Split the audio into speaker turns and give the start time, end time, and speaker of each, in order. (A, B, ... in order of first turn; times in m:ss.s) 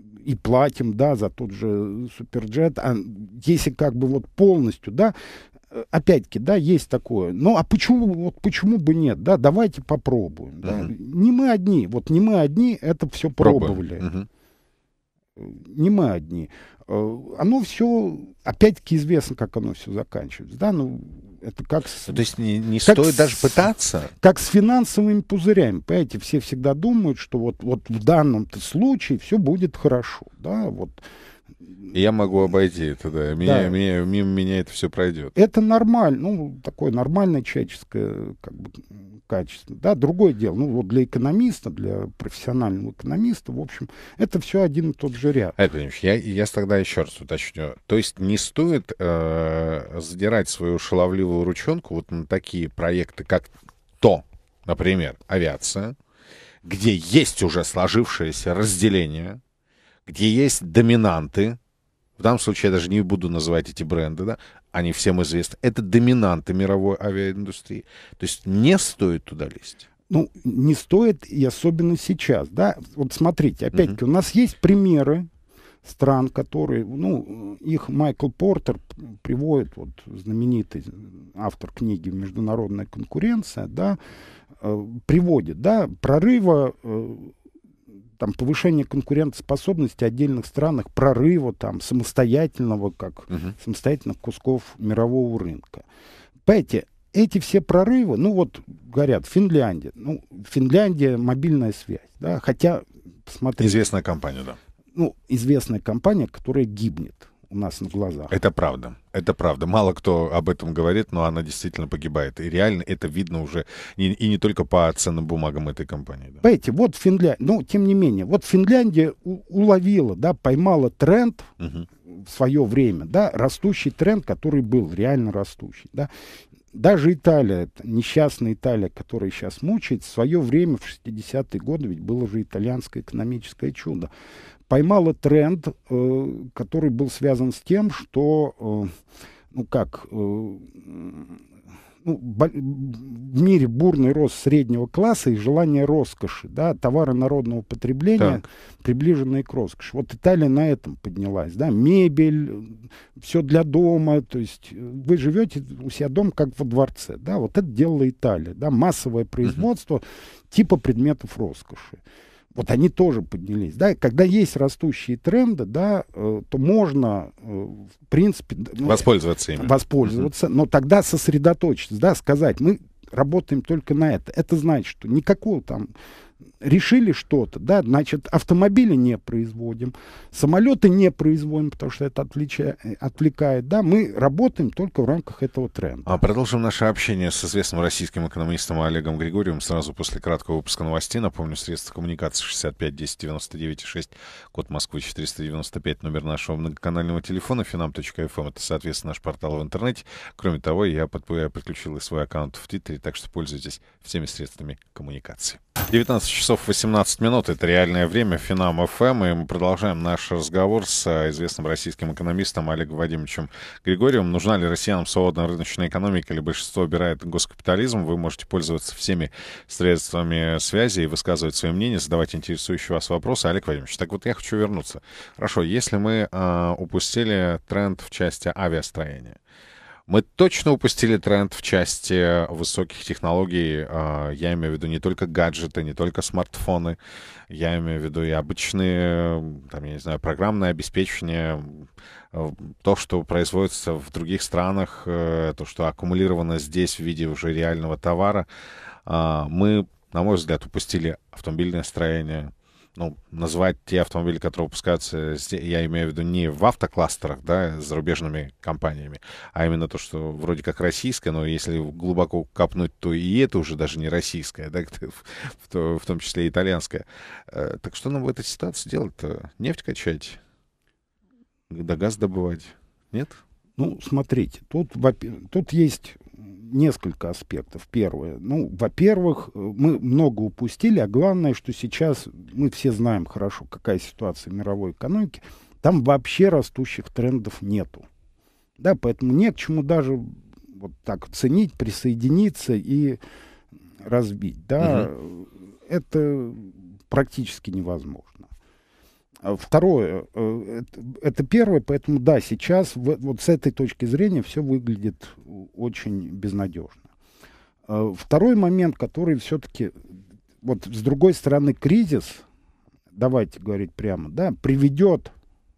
0:00.2-0:05.1 A
0:05.7-0:14.1 A
0:10.6-0:10.9 B
0:13.4-0:14.3 B
0:15.4-0:22.2 A
0:22.0-0:24.1 B
0:22.8-0:31.0 A
0:31.9-0:35.3 B
0:33.4-0:33.8 A
0:35.4-0:45.6 A
0:45.6-0:56.0 B
0:56.6-0:59.4 B
1:00.1-1:01.6 B
1:02.2-1:09.9 B
1:10.1-1:15.3 A
1:15.8-1:24.0 A
1:24.6-1:27.3 A
1:28.2-1:35.9 A
1:36.5-1:43.8 A
1:43.6-1:44.6 B
1:44.9-1:48.3 A
1:48.3-1:56.4 B
1:56.4-2:01.5 A
2:01.6-2:01.9 B
2:02.1-2:06.1 A
2:06.7-2:14.1 A
2:14.7-2:18.9 A
2:19.5-2:21.4 A
2:22.0-2:42.0 A
2:28.2-2:28.4 B
2:42.5-2:55.9 A
2:48.8-2:50.3 B
2:56.6-3:06.2 A
3:06.1-3:49.4 B
3:50.1-3:57.0 B
3:57.5-4:08.5 B
4:09.1-4:30.4 B
4:31.7-4:33.4 B
4:33.8-4:48.1 A
4:48.8-4:53.2 A
4:54.0-4:58.5 A
4:54.8-4:55.1 B
4:59.4-5:07.1 A
5:07.9-5:10.0 A
5:10.6-5:12.4 A
5:13.1-5:15.3 A